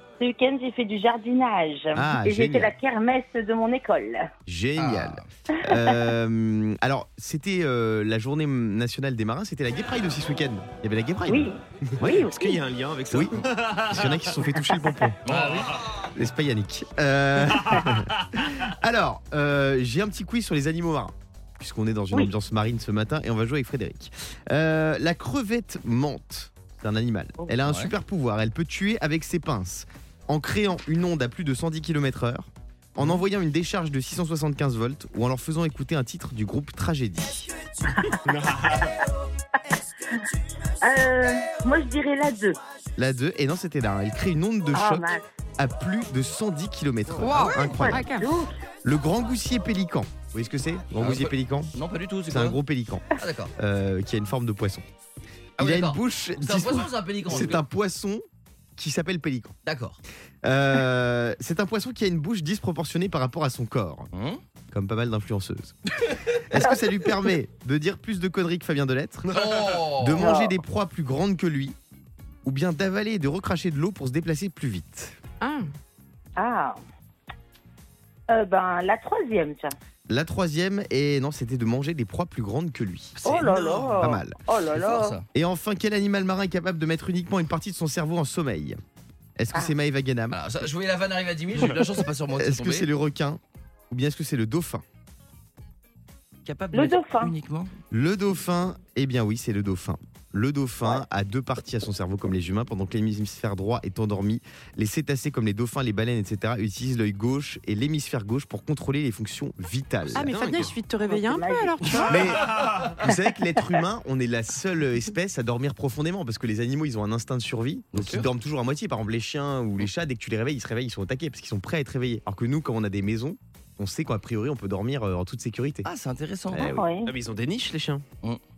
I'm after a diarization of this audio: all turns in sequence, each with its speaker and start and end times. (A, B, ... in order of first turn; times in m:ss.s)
0:00.2-0:04.3 A
0:01.9-0:02.7 B
0:04.5-0:12.3 B
0:04.8-0:05.3 C
0:05.5-0:06.0 A
0:11.3-0:12.6 A
0:11.9-0:14.4 D
0:13.1-0:15.2 B
0:14.6-0:15.0 A
0:15.2-0:15.8 C
0:15.3-0:15.8 D
0:16.1-0:37.5 B
0:17.7-0:18.5 D
0:27.6-0:27.9 C
0:38.3-0:38.9 D
0:40.8-0:42.6 A
0:43.0-0:48.0 B
0:44.7-0:45.2 A
0:47.2-0:48.3 E
0:47.8-0:48.5 A
0:48.8-0:51.7 B
0:51.0-0:52.6 C
0:52.3-0:53.0 B
0:53.2-0:53.5 C
0:53.6-0:54.9 B
0:55.6-0:57.6 C
0:55.6-0:58.2 B
0:58.8-0:59.6 B
0:59.6-1:00.0 C
1:00.4-1:04.1 B
1:04.1-1:04.4 C
1:04.7-1:05.8 B
1:05.9-1:06.4 C
1:06.5-1:09.4 B
1:09.3-1:10.3 C
1:09.9-1:11.8 B
1:10.2-1:10.6 A
1:12.4-1:15.2 B
1:15.4-1:15.7 E
1:16.4-1:16.8 A
1:18.3-1:19.8 A
1:20.1-1:23.2 B
1:23.2-1:24.0 C
1:23.2-1:25.2 A
1:24.0-1:24.4 B
1:24.7-1:25.3 C
1:25.3-1:28.8 B
1:29.4-1:30.4 B
1:30.3-1:32.9 C
1:32.3-1:34.8 B
1:36.4-1:37.7 C
1:36.7-1:37.3 A
1:37.9-1:50.3 B
1:50.1-1:52.3 E
1:50.2-1:50.7 D
1:51.0-1:52.1 A
1:52.1-2:05.9 B
1:53.0-1:53.3 A
1:57.9-1:58.3 C
2:05.8-2:06.7 C
2:06.5-2:06.9 B
2:06.6-2:07.1 A
2:07.0-2:08.0 D